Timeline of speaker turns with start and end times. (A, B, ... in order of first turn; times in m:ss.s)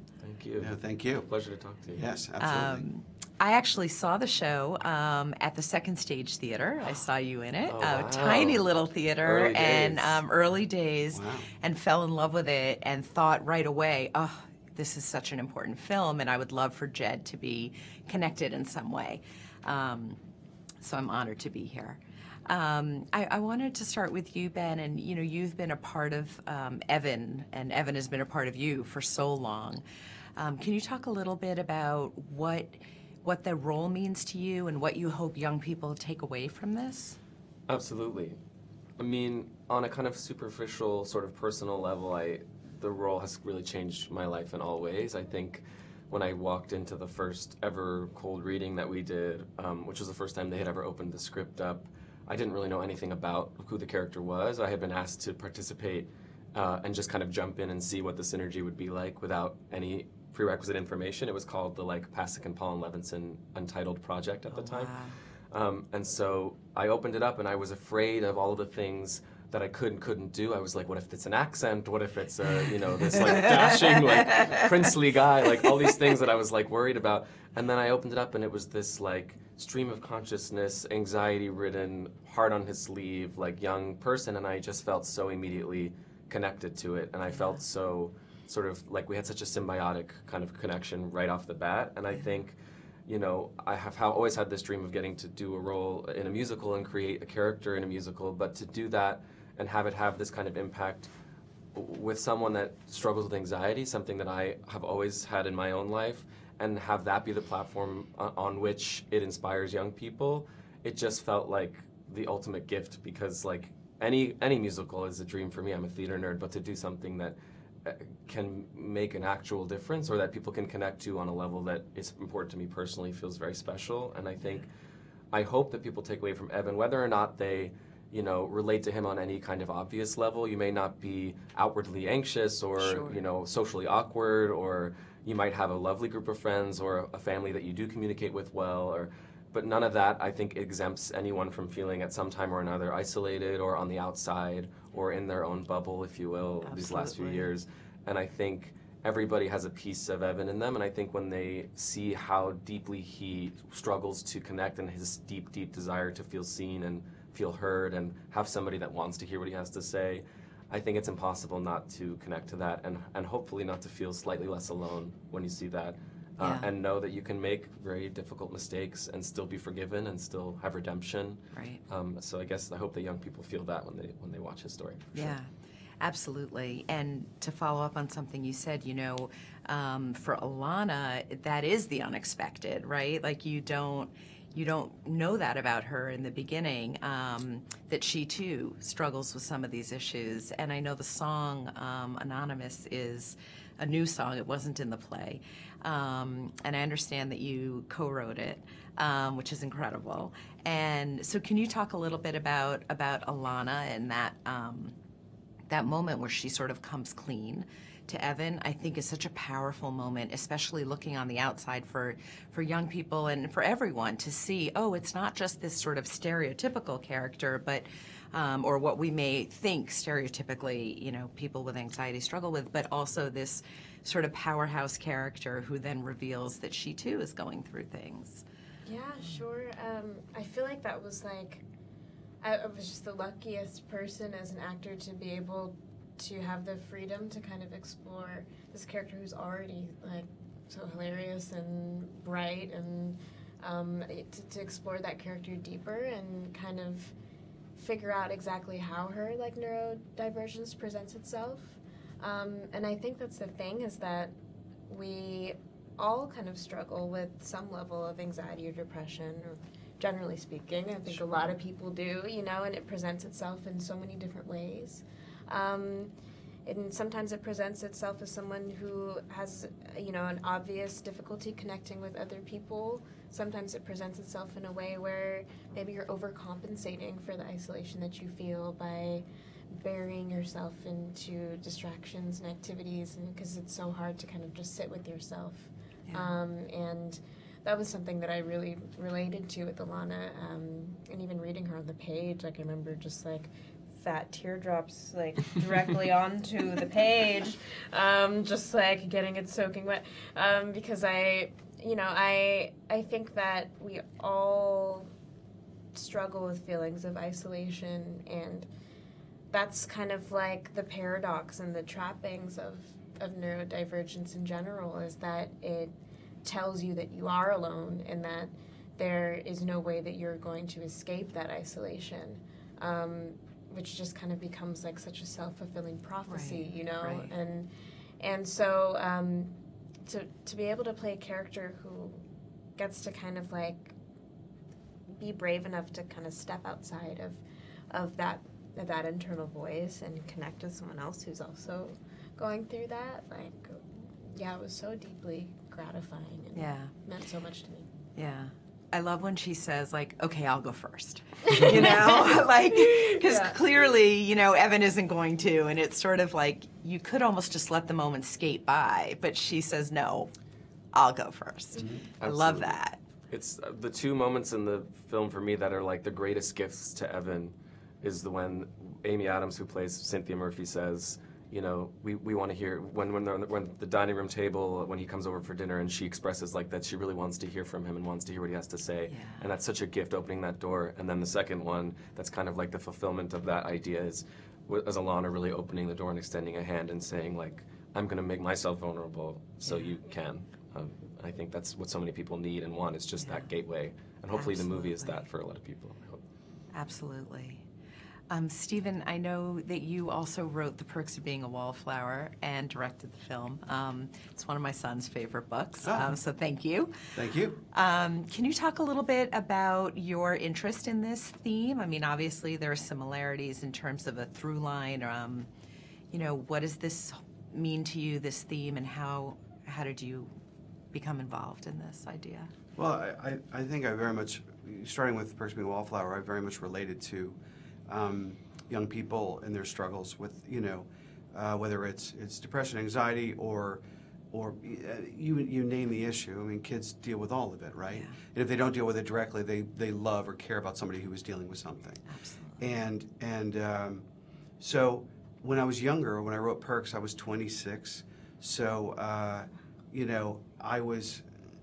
0:00.2-0:02.1 A
0:00.6-0:01.3 B
0:01.9-0:02.8 B
0:02.4-0:20.2 C
0:07.6-0:08.7 A
0:09.2-0:10.2 A
0:11.1-0:11.5 B
0:20.8-0:29.8 C
0:30.4-0:37.2 C
0:37.7-0:38.4 A
0:39.0-1:05.0 A
1:04.5-1:05.2 C
1:05.5-1:41.1 A
1:13.2-1:13.7 C
1:27.3-1:27.6 C
1:41.7-2:04.7 A
2:05.3-2:55.4 A
2:12.8-2:13.2 C
2:26.6-2:27.5 C
2:46.4-2:46.7 C
2:51.5-2:51.8 C
2:55.1-2:55.5 C
2:56.0-3:25.0 C
3:25.7-3:48.4 C
3:48.8-3:51.6 D
3:52.4-4:07.1 D
4:07.7-4:14.3 D
4:14.9-4:26.1 D
4:21.1-4:21.5 C
4:26.6-5:05.1 D
4:46.1-4:46.3 C
5:05.9-5:08.7 D
5:09.5-5:15.9 D
5:16.4-5:29.5 D
5:26.2-5:27.3 C
5:30.0-5:32.2 D
5:32.8-5:33.9 D
5:35.1-5:47.9 D
5:46.5-5:46.9 C
5:48.1-6:00.3 C
5:53.0-5:53.5 D
6:00.9-6:03.0 C
6:01.7-6:02.0 B
6:02.2-6:02.8 A
6:03.3-6:36.2 A
6:19.1-6:19.5 C
6:33.2-6:33.5 C
6:34.3-6:35.2 C
6:36.7-6:37.6 C
6:38.3-6:47.0 C
6:45.8-6:46.2 B
6:47.1-6:47.6 B
6:47.6-6:55.5 C
6:56.1-7:00.3 C
7:00.9-7:02.5 C
7:02.8-7:22.0 B
7:17.9-7:18.2 C
7:22.1-7:22.7 C
7:22.6-7:24.0 B
7:24.6-7:31.2 B